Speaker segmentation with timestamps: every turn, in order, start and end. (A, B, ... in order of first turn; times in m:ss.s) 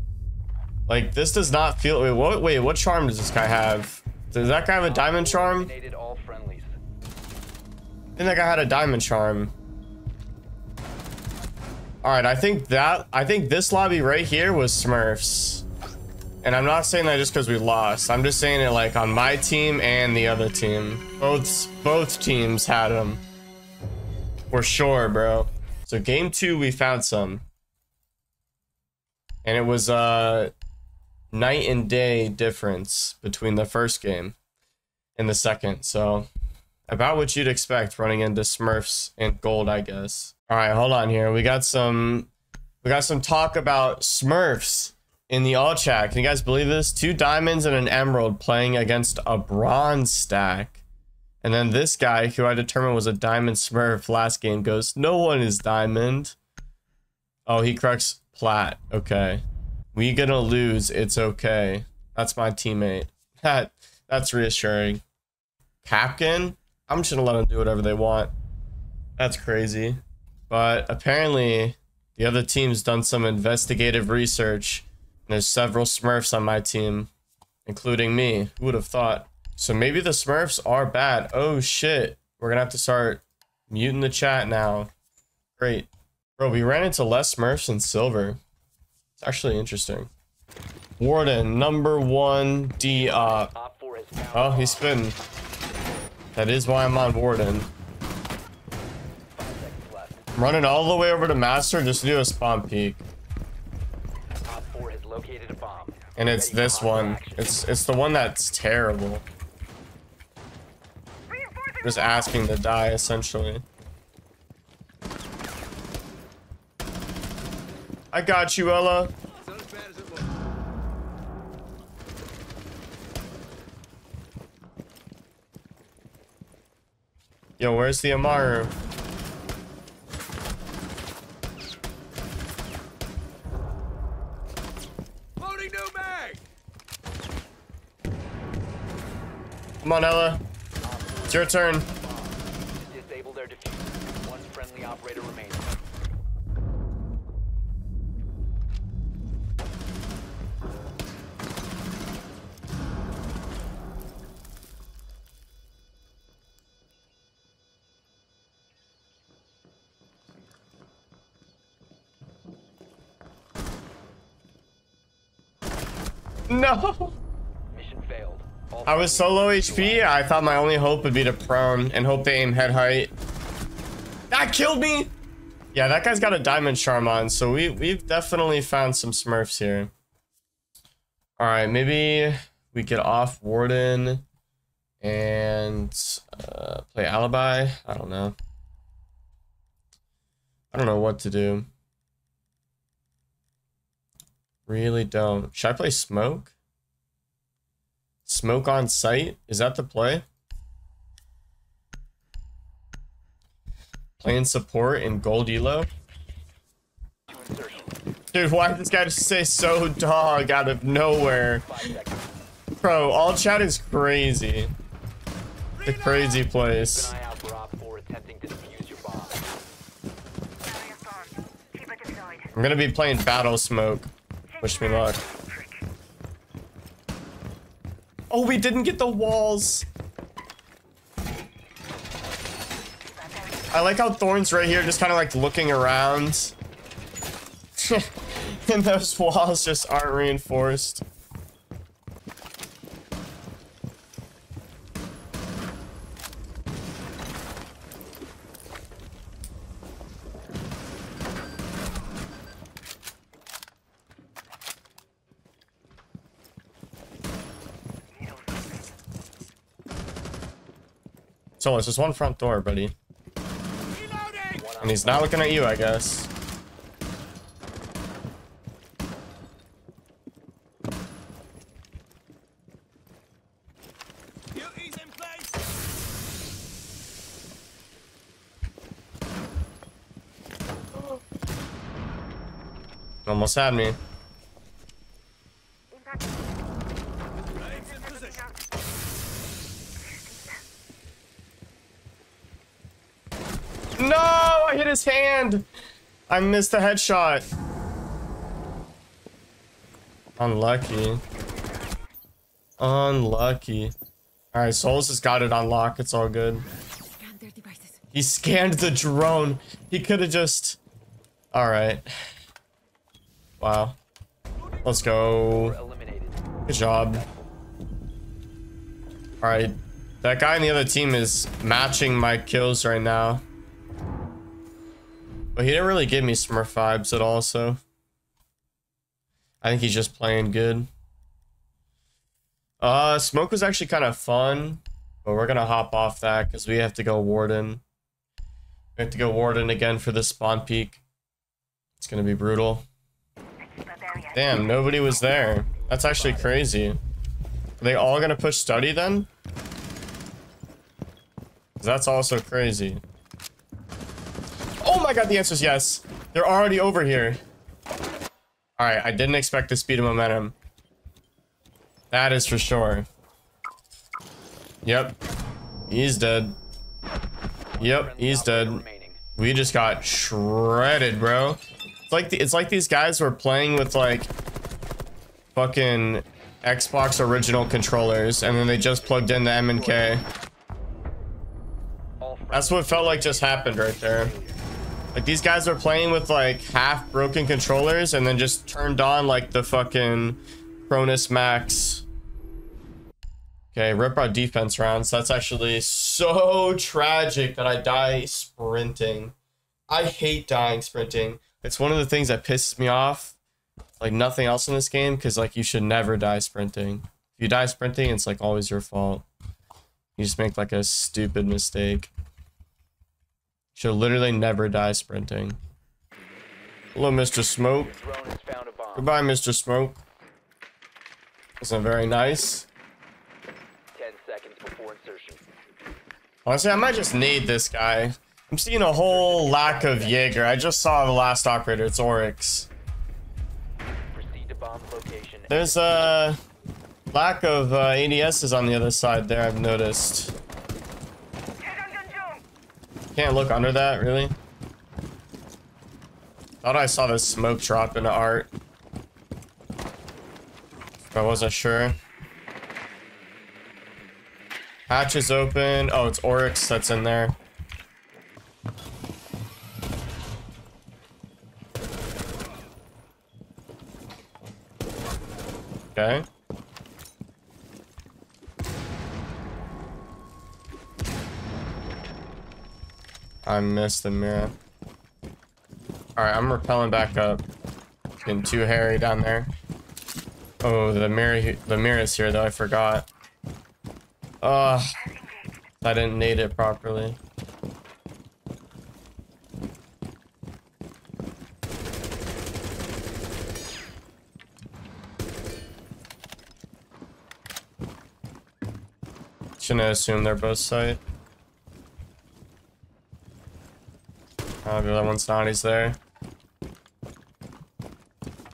0:00.9-0:05.7 A
0:04.8-0:06.8 B
0:08.2-0:09.5 A
0:12.0-0:15.6 A
0:16.4-0:23.2 A
0:24.5-0:27.4 A
0:29.4-0:30.5 A
0:31.3-0:34.4 A
0:35.2-0:36.3 A
0:36.9-0:42.3 A
0:42.8-0:50.8 A
0:51.4-0:56.4 A
0:57.5-1:05.0 A
1:05.8-1:08.3 A
1:09.2-1:17.1 A
1:17.7-1:24.9 A
1:25.6-1:28.4 A
1:29.2-1:30.1 A
1:31.0-1:33.5 A
1:32.9-1:34.9 B
1:34.3-1:35.2 A
1:36.4-1:37.7 A
1:39.4-1:40.3 B
1:40.4-1:43.0 A
1:44.5-1:47.7 B
1:46.2-1:49.2 A
1:51.8-1:53.6 A
1:58.1-1:59.1 A
2:07.6-2:08.7 A
2:19.8-2:20.4 A
2:20.8-2:25.8 B
2:21.3-2:21.9 A
2:46.5-2:47.2 A
2:47.7-2:50.8 B
2:48.9-2:53.1 A
2:54.3-2:55.1 A
2:55.7-2:59.9 A
3:01.4-3:04.2 A
3:05.0-3:08.4 A
3:10.7-3:11.7 A
3:14.7-3:16.5 A
3:18.3-3:20.2 A
3:24.2-3:25.9 A
3:27.3-3:27.9 B
3:28.3-3:31.9 A
3:31.6-3:32.3 B
3:32.8-3:34.7 A
3:35.8-3:37.1 A
3:36.6-3:39.4 B
3:40.7-3:42.5 C
3:42.5-3:44.1 A
3:44.5-3:45.7 C
3:44.6-3:45.2 A
3:48.3-3:49.9 A
3:53.7-3:56.5 A
3:57.8-4:01.0 A
4:21.6-4:22.9 A
4:24.5-4:25.6 B
4:24.8-4:26.3 A
4:43.3-4:44.0 A
4:45.9-4:46.3 C
4:47.6-4:48.6 C
4:50.0-4:50.6 C
4:54.0-4:55.7 A
4:56.3-4:57.5 A
5:00.4-5:01.2 A
5:02.8-5:04.0 A
5:04.5-5:06.6 A
5:07.2-5:08.0 C
5:08.1-5:10.8 A
5:11.5-5:12.1 A
5:13.6-5:14.0 A
5:14.8-5:15.8 A
5:15.3-5:16.4 B
5:16.7-5:17.2 A
5:19.4-5:23.4 A
5:25.6-5:27.8 A
5:29.6-5:30.9 A
5:32.8-5:37.8 A
5:39.0-5:41.0 A
5:42.0-5:42.8 A
5:43.7-5:44.8 C
5:44.3-5:47.0 A
5:45.7-5:46.5 B
5:47.8-5:49.3 A
5:51.8-5:53.0 A
5:54.8-5:57.4 A
5:58.8-6:00.6 A
6:02.1-6:03.1 A
6:04.8-6:05.2 A
6:05.9-6:06.6 A
6:07.7-6:09.2 B
6:07.8-6:08.8 A
6:09.4-6:14.3 A
6:15.6-6:20.2 A
6:18.6-6:20.2 B
6:22.2-6:24.6 B
6:22.5-6:24.3 A
6:25.2-6:32.0 A
6:33.7-6:39.3 A
6:39.9-6:43.4 A
6:44.0-6:49.3 A
6:50.2-6:52.1 A
6:53.8-6:55.6 A
6:57.0-6:57.9 A
6:57.8-6:59.1 B
6:59.0-7:00.0 A
7:01.6-7:02.7 A
7:03.9-7:05.4 B
7:06.4-7:12.7 A
7:09.0-7:10.4 B
7:14.1-7:16.0 B
7:15.5-7:16.4 A
7:17.1-7:20.4 A
7:23.2-7:24.4 A
7:26.6-7:28.5 A
7:31.1-7:32.0 A
7:34.9-7:37.4 A
7:46.0-7:46.3 A
7:53.5-7:54.5 A
7:56.2-7:57.4 A
7:58.2-7:59.5 A
8:00.6-8:03.1 A
8:04.4-8:04.9 A
8:05.8-8:07.2 A
8:19.6-8:21.0 A
8:24.6-8:26.0 A